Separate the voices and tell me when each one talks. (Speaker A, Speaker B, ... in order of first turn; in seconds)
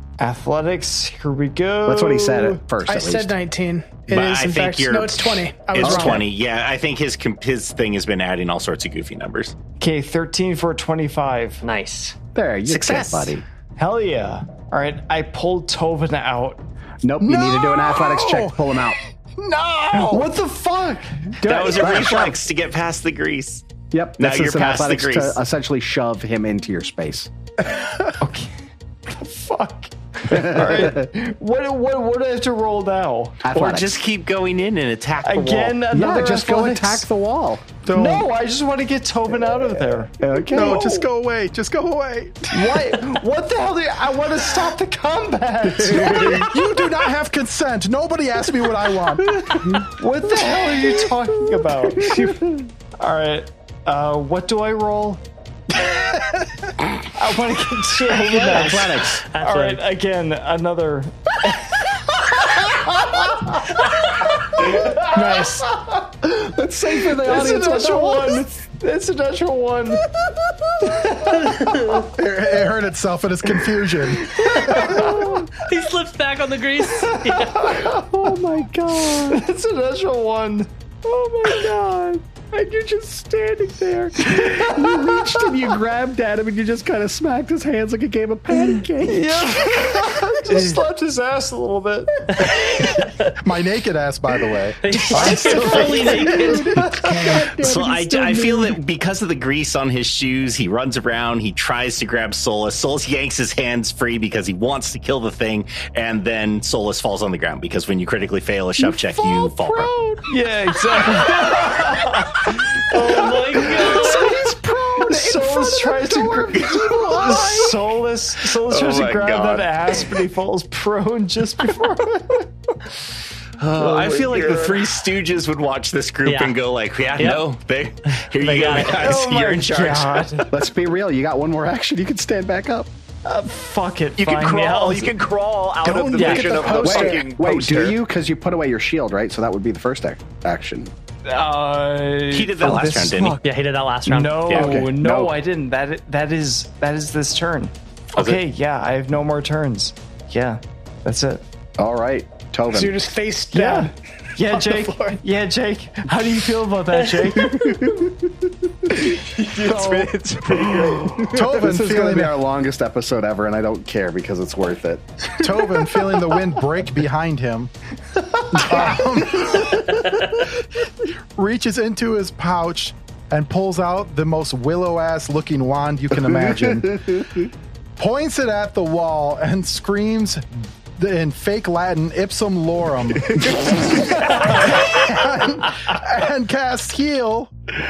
Speaker A: 0.2-2.6, 9.8-11.6, 13.8-16.6, 19.9-21.4, 28.2-28.5, 29.1-33.5, 35.2-37.1, 37.9-40.7, 42.5-46.9, 49.3-55.2, 57.0-61.9, 67.0-70.0, 70.9-71.4, 74.3-75.5, 77.1-77.8, 79.1-85.7, 89.0-92.3, 95.1-97.7, 110.2-122.5, 123.8-124.9, 128.6-130.5, 133.2-135.1, 136.2-137.1, 141.3-143.3, 144.1-151.4, 153.5-158.0
Speaker B: 1.8-3.3, 5.8-6.2, 12.3-13.4, 17.0-19.0, 21.4-22.4, 23.9-27.3, 30.3-31.1, 33.4-34.0, 35.9-37.8, 40.2-41.0, 45.9-46.5, 52.0-52.2, 58.3-59.1, 64.7-65.0, 66.2-68.5, 77.8-79.5, 82.6-90.8, 95.4-98.6, 108.8-110.2, 113.9-117.7, 130.5-132.9, 136.9-140.9, 142.6-143.3, 144.5-145.3, 151.8-153.0, 157.6-158.1, 159.5-165.3, 176.2-177.3
Speaker C: 2.9-6.3, 64.6-65.7, 95.5-97.4, 135.8-137.3, 152.7-155.2
Speaker D: 4.1-9.6, 12.7-13.4, 21.4-23.6, 24.2-25.4, 33.5-35.9, 97.5-109.9, 123.6-130.4, 142.3-143.4, 144.4-144.8, 148.1-148.4
Speaker E: 11.6-12.2, 58.3-59.8, 71.2-72.1, 74.4-75.0, 75.6-77.8, 92.3-93.3, 94.8-96.7, 111.2-112.3, 112.9-114.3, 126.2-126.6, 127.2-127.4, 128.4-129.0, 143.4-144.6
Speaker F: 17.2-20.4, 37.8-38.3, 40.5-43.1, 45.9-49.4, 72.1-75.4, 92.6-92.8, 93.4-97.2, 161.3-162.4, 165.3-167.7, 168.5-170.6, 171.3-177.3, 178.0-187.5
Speaker G: 118.7-119.6, 134.2-138.0, 159.3-161.4